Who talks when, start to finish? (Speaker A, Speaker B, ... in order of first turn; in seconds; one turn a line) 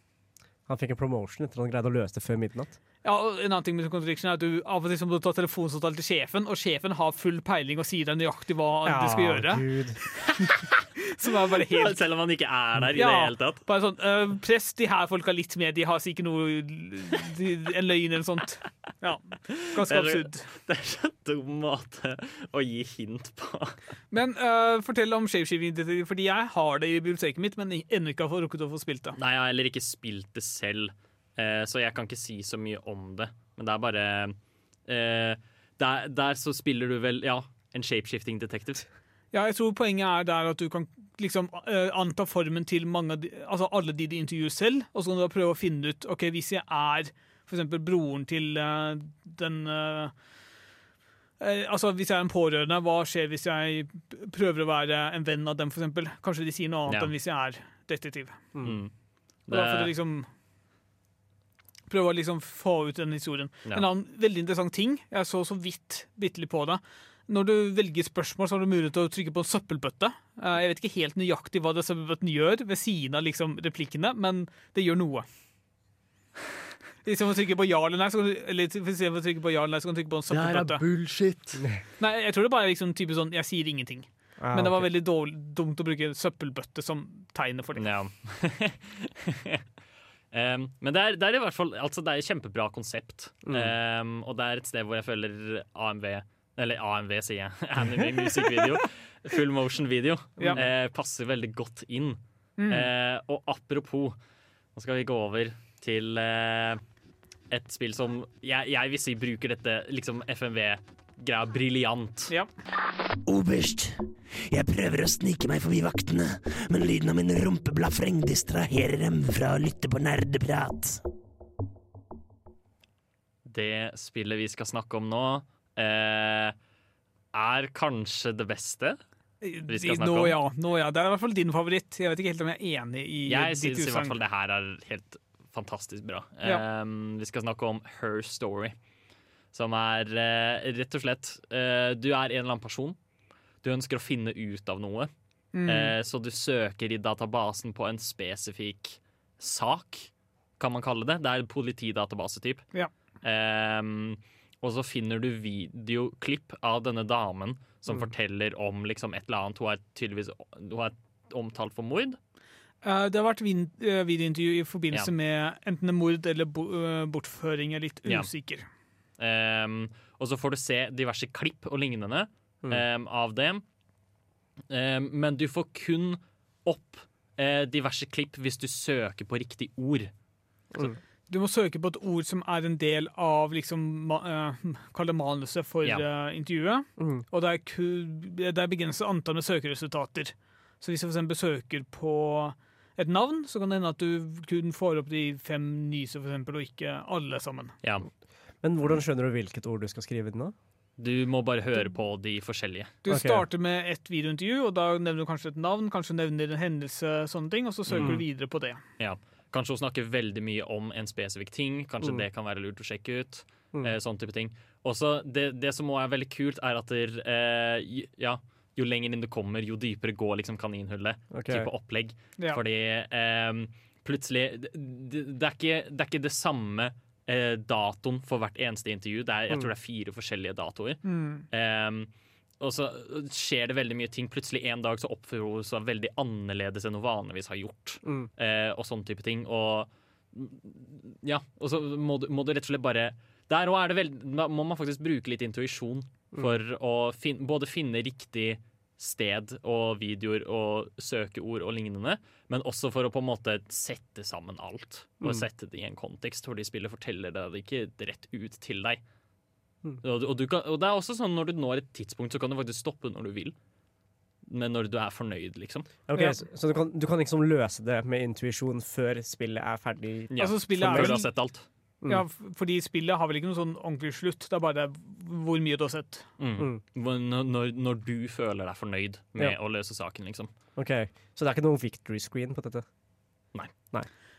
Speaker A: 0.7-2.8
Speaker B: 3.0-9.7
Speaker A: 8.8-10.0
Speaker B: 11.2-12.0
Speaker C: 11.7-13.6
Speaker B: 12.9-20.5
Speaker C: 19.8-23.8
Speaker B: 24.1-29.2
Speaker C: 29.2-34.4
Speaker C: 34.9-38.9
Speaker B: 39.3-50.1
Speaker B: 51.4-58.5
Speaker C: 58.6-58.9
Speaker C: 59.5-59.9
Speaker B: 59.5-60.3
Speaker B: 61.9-75.3
Speaker B: 77.0-80.8
Speaker C: 80.3-81.6
Speaker B: 82.0-87.8
Speaker A: 84.4-84.9
Speaker C: 87.8-89.6
Speaker C: 90.3-104.2
Speaker A: 93.5-93.7
Speaker B: 102.6-102.9
Speaker C: 104.8-106.8
Speaker C: 107.5-112.3
Speaker D: 113.3-121.0
Speaker C: 123.5-126.5
Speaker C: 127.3-129.0
Speaker B: 129.4-134.2
Speaker C: 129.7-130.4
Speaker C: 133.3-138.8
Speaker C: 139.5-143.0
Speaker C: 143.6-145.1
Speaker B: 145.5-145.9
Speaker C: 145.7-152.7
Speaker C: 153.2-162.2
Speaker B: 162.8-168.7
Speaker C: 168.1-168.3
Speaker C: 169.2-173.6
Speaker C: 174.7-180.1
Speaker A: 180.7-181.0
Speaker B: 181.3-197.8
Speaker A: 187.0-187.2
Speaker A: 198.6-200.5
Speaker C: 201.0-202.9
Speaker B: 203.0-208.8
Speaker A: 203.1-203.4
Speaker C: 207.9-208.3
Speaker C: 209.0-259.0
Speaker A: 221.3-221.7
Speaker B: 231.1-231.5
Speaker A: 238.0-238.3
Speaker C: 260.0-263.6
Speaker C: 264.5-265.9
Speaker A: 266.1-271.3
Speaker C: 270.3-271.7
Speaker B: 270.4-271.3
Speaker B: 272.1-276.3
Speaker C: 276.4-280.5
Speaker A: 280.8-282.9